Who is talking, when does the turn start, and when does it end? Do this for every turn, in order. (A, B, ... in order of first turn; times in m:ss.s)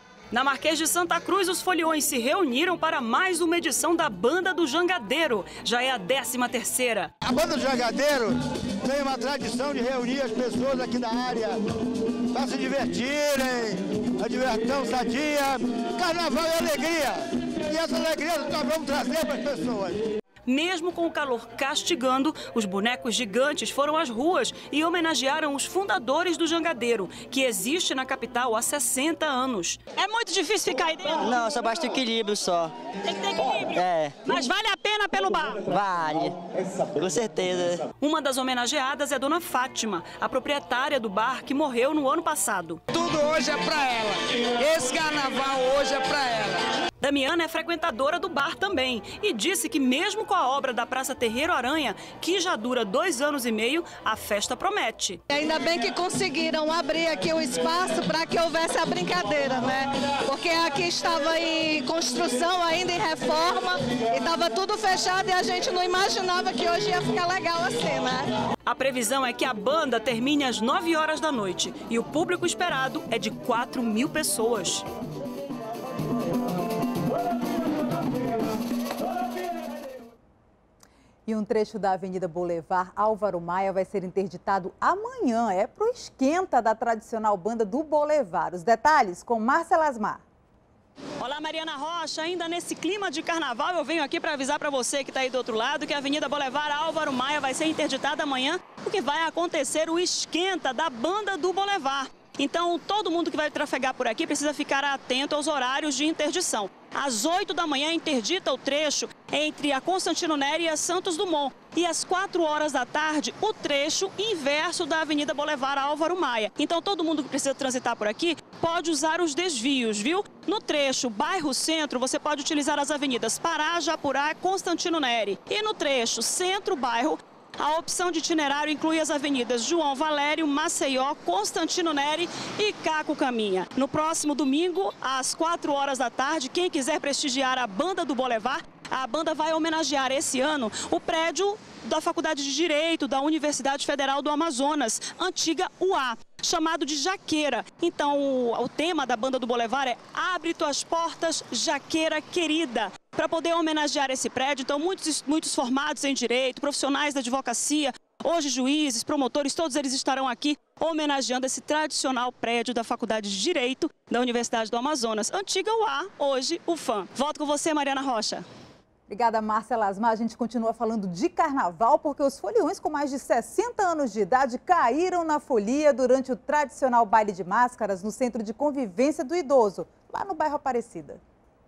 0:00.3-0:07.1 A
0:07.2-0:11.6 B
0:12.3-0:20.0 B
0:20.5-0:31.4 A
0:31.2-0:32.7 C
0:33.0-0:35.7 A
0:33.8-0:34.2 C
0:35.7-0:36.4 C
0:36.9-0:37.8 C
0:38.0-0:42.8 A
0:42.9-0:46.6 D
0:47.0-0:55.2 A
0:55.3-1:08.3 E
1:08.7-1:14.9 A
1:21.3-1:30.2 F
1:31.2-2:48.4 A
2:49.1-3:01.2 F